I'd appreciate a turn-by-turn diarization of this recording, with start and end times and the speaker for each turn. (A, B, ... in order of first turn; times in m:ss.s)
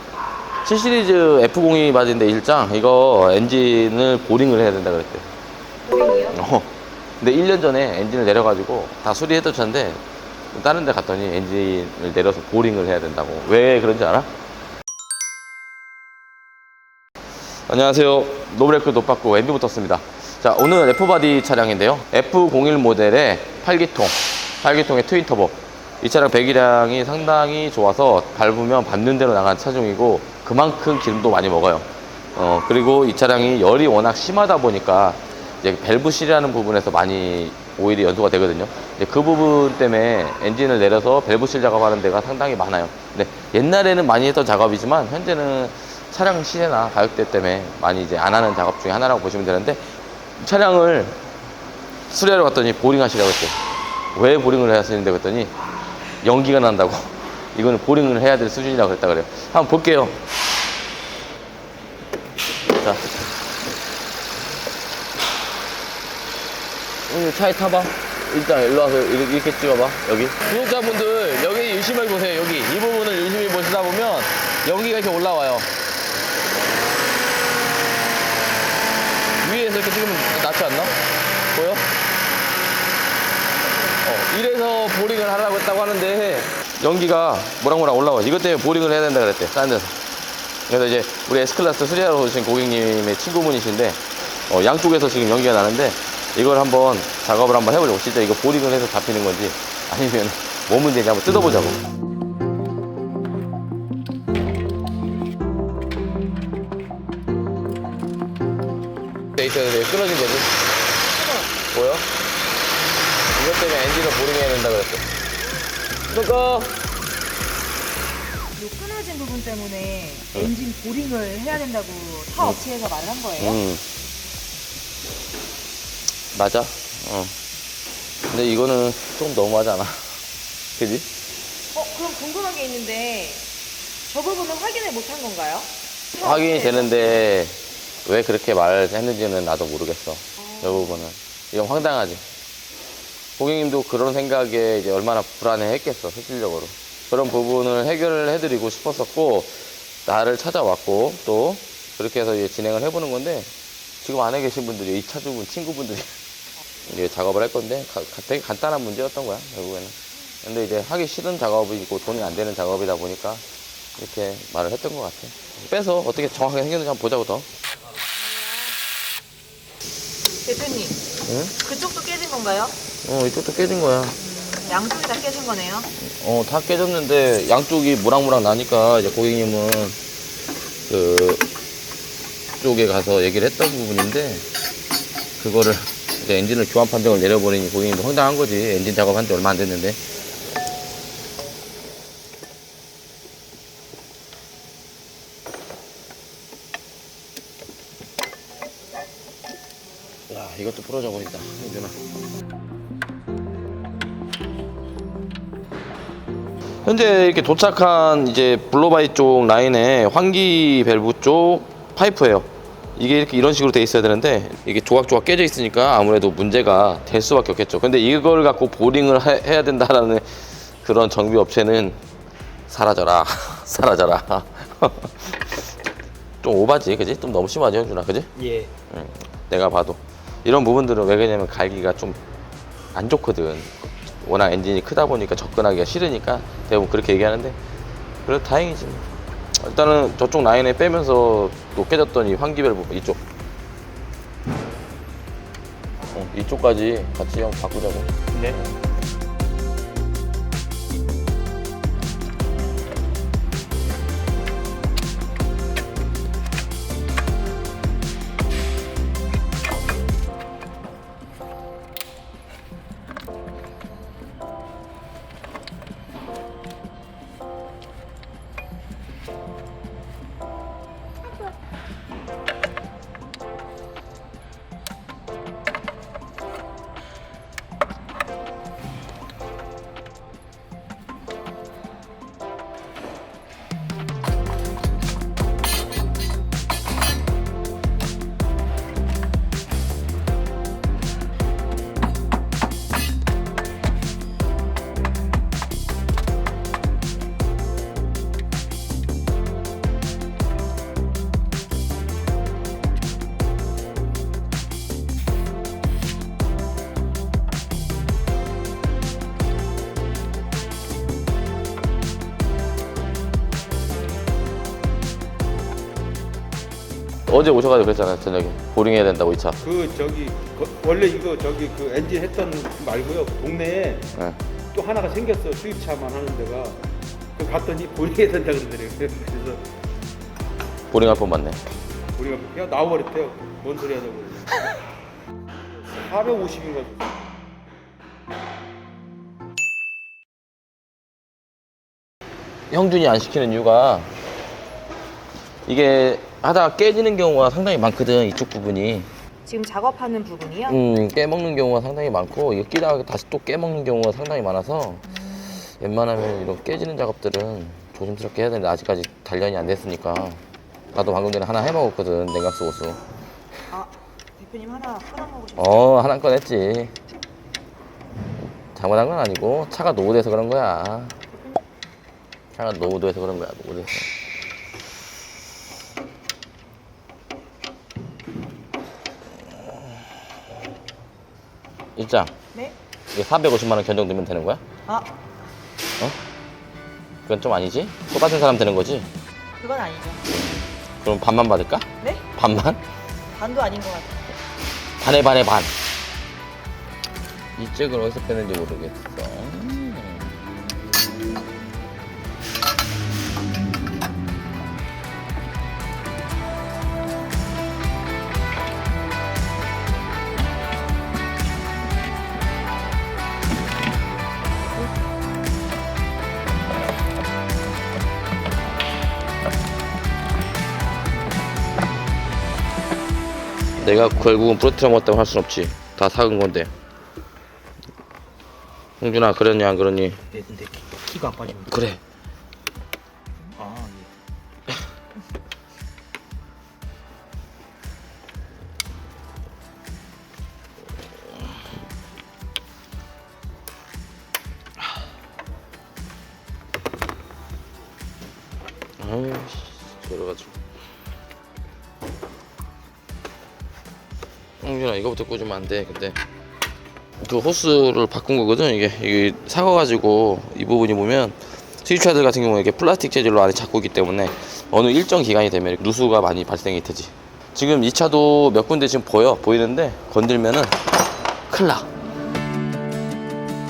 0:00.6-0:05.3 A
0:05.8-0:06.4 B
0:06.3-0:14.3 A
0:17.7-0:49.8 A
0:50.4-0:51.2 A
0:52.1-0:53.6 A
0:54.1-0:55.5 A
0:56.2-1:00.2 A
1:02.6-1:03.0 A
1:07.1-1:15.7 A
1:19.4-1:21.9 A
1:24.0-1:30.0 A
1:30.7-1:41.8 A
1:49.3-1:50.6 A
1:51.1-1:51.5 B
1:51.7-1:52.1 A
1:53.3-1:55.1 A
1:56.1-1:56.8 A
1:58.5-2:03.6 B
2:03.4-2:03.8 A
2:06.3-2:07.4 A
2:08.3-2:10.1 A
2:10.7-2:11.1 A
2:11.7-2:13.5 B
2:14.0-2:17.1 B
2:16.2-2:22.2 A
2:20.4-2:21.0 B
2:23.4-2:36.1 A
2:36.9-2:43.4 A
2:44.0-2:47.5 A
2:48.4-2:48.7 B
2:50.4-2:52.8 B
2:51.2-2:51.6 A
2:53.0-2:54.2 A
2:54.2-2:55.9 B
2:56.0-3:00.0 A
3:00.9-3:01.4 A
3:02.6-3:04.4 A
3:05.4-3:10.0 A
3:20.3-3:22.0 A
3:26.8-3:42.0 A
3:42.7-3:45.7 A
3:46.4-3:52.2 A
3:52.9-3:57.6 A
3:58.2-4:03.2 A
4:06.1-4:08.1 A
4:08.3-4:08.6 C
5:17.3-5:19.6 A
5:19.6-5:24.1 D
5:24.7-5:26.8 D
5:27.4-5:29.6 D
5:30.9-5:31.6 A
5:32.2-5:34.6 D
5:35.9-5:37.2 D
5:42.7-5:44.1 A
5:45.6-5:49.1 A
5:49.4-5:50.8 B
5:50.7-6:00.4 A
6:00.9-6:03.0 A
6:03.7-6:05.9 B
6:05.6-6:06.9 A
6:08.7-6:11.2 A
6:12.5-6:14.1 A
6:22.0-6:22.3 A
6:23.1-6:24.6 A
6:24.8-6:25.1 B
6:27.2-6:29.1 A
6:29.6-6:30.2 B
6:30.3-6:32.8 A
6:32.0-6:32.2 B
6:33.3-6:34.2 B
6:35.0-6:35.7 A
6:37.6-6:40.4 A
7:03.8-7:06.7 A
7:09.0-7:10.2 A
7:10.3-7:11.6 C
7:11.5-7:12.0 A
7:13.6-7:14.1 C
7:29.0-7:30.6 A
7:34.6-7:36.2 A
7:37.2-7:50.8 A
7:51.5-7:51.9 A